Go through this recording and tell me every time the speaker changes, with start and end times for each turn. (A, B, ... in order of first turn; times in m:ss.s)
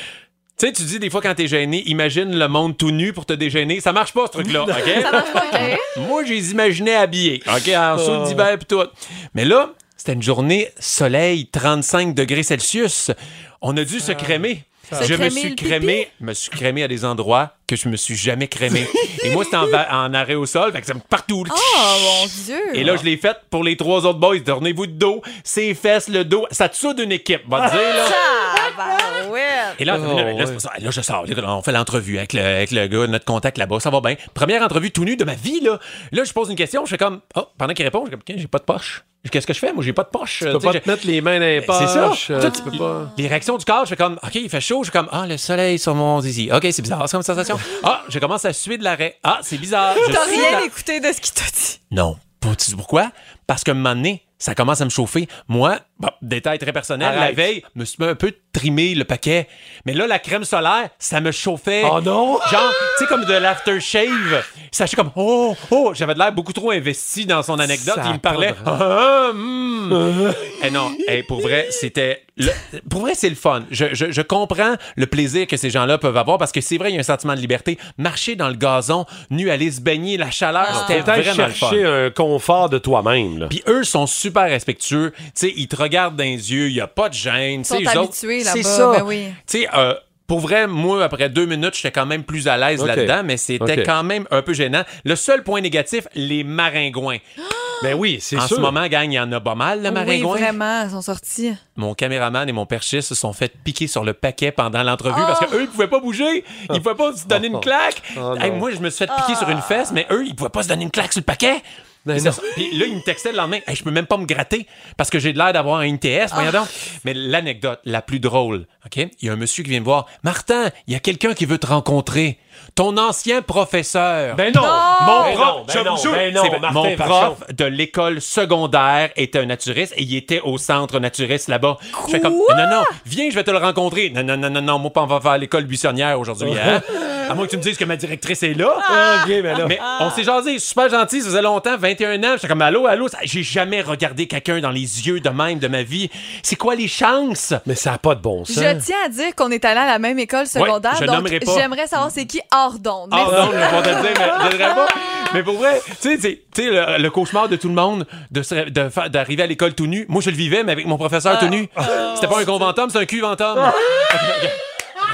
0:00.6-0:28.2 A
0:04.7-0:05.4 B
0:04.8-0:05.9 C
0:07.9-0:08.5 B
0:14.0-0:15.2 B
0:14.9-0:16.1 C
0:21.5-0:23.0 C
0:27.9-0:29.8 C
0:29.8-0:40.9 A
0:29.9-0:30.6 B
0:40.4-0:43.1 B
0:41.6-0:50.7 A
0:49.9-0:51.8 C
0:51.9-1:21.8 A
0:57.0-0:57.5 B
1:01.8-1:02.9 B
1:07.6-1:08.7 B
1:09.9-1:10.5 B
1:20.6-1:21.1 C
1:20.7-1:23.5 B
1:23.5-1:28.2 A
1:27.6-1:29.4 C
1:28.4-1:29.1 B
1:29.5-1:37.2 A
1:32.8-1:33.9 B
1:37.8-1:38.8 B
1:38.3-1:40.6 A
1:39.9-1:41.6 C
1:41.8-2:19.0 A
1:45.1-1:45.6 C
1:46.7-1:48.6 B
1:49.1-1:49.9 C
1:52.0-1:52.4 B
2:04.3-2:07.4 B
2:04.5-2:05.4 C
2:12.0-2:12.9 C
2:16.4-2:16.8 B
2:18.8-2:19.8 B
2:19.5-2:27.6 A
2:27.6-2:28.8 B
2:28.5-2:34.4 C
2:30.6-2:31.7 A
2:33.1-2:44.6 A
2:33.3-2:33.9 B
2:41.8-2:42.2 B
2:43.6-2:44.0 B